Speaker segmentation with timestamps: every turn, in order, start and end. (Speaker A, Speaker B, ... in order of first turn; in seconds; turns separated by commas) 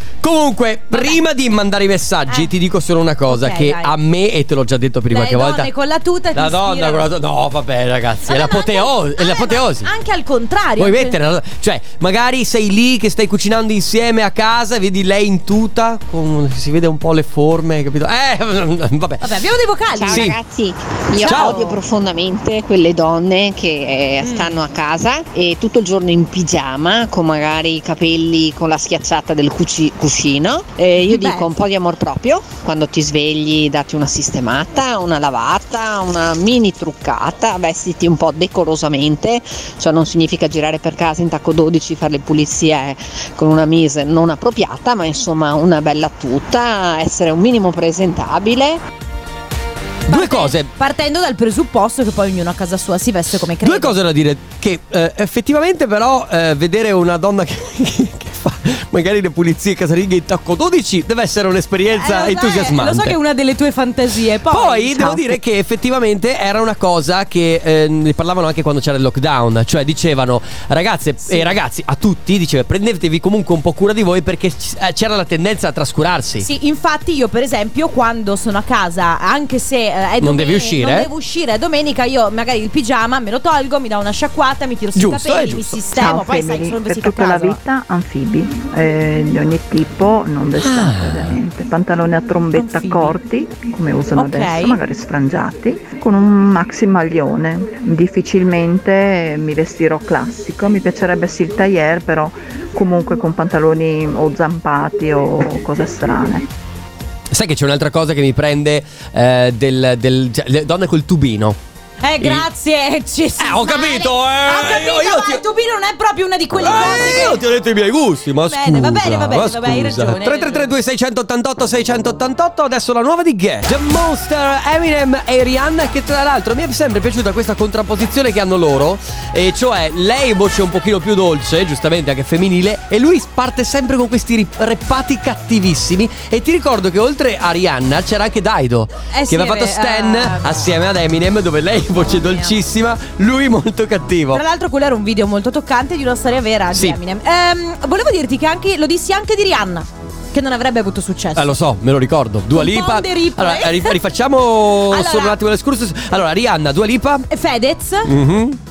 Speaker A: 0.2-5.7, Speaker B: 0.9-1.2, Speaker B: 3.3-3.9, Speaker B: 5.1-7.1, Speaker A: 6.3-9.9, Speaker B: 8.3-11.2, Speaker A: 10.8-19.3, Speaker B: 19.2-20.4, Speaker C: 19.9-48.8, Speaker A: 20.1-20.4, Speaker B: 21.2-21.8, Speaker A: 21.2-21.7, Speaker B: 24.2-24.6, Speaker B: 31.0-31.6, Speaker A: 50.1-50.7, Speaker B: 50.1-54.0, Speaker A: 53.6-63.2, Speaker B: 61.9-65.4, Speaker A: 64.5-76.5, Speaker B: 76.4-87.6, Speaker A: 80.2-81.1, Speaker A: 85.0-85.8, Speaker D: 85.9-106.5, Speaker A: 90.6-91.4, Speaker B: 92.5-93.2, Speaker B: 94.2-94.8, Speaker A: 107.3-111.6, Speaker B: 112.0-117.4, Speaker A: 112.2-112.5, Speaker A: 113.4-115.4, Speaker A: 116.5-144.4, Speaker B: 118.5-120.7, Speaker B: 139.1-140.8, Speaker B: 142.1-142.5, Speaker B: 144.3-151.6, Speaker A: 146.7-147.0, Speaker A: 151.3-157.3, Speaker B: 152.5-154.0, Speaker B: 154.9-155.4, Speaker B: 157.3-158.2, Speaker A: 158.1-158.6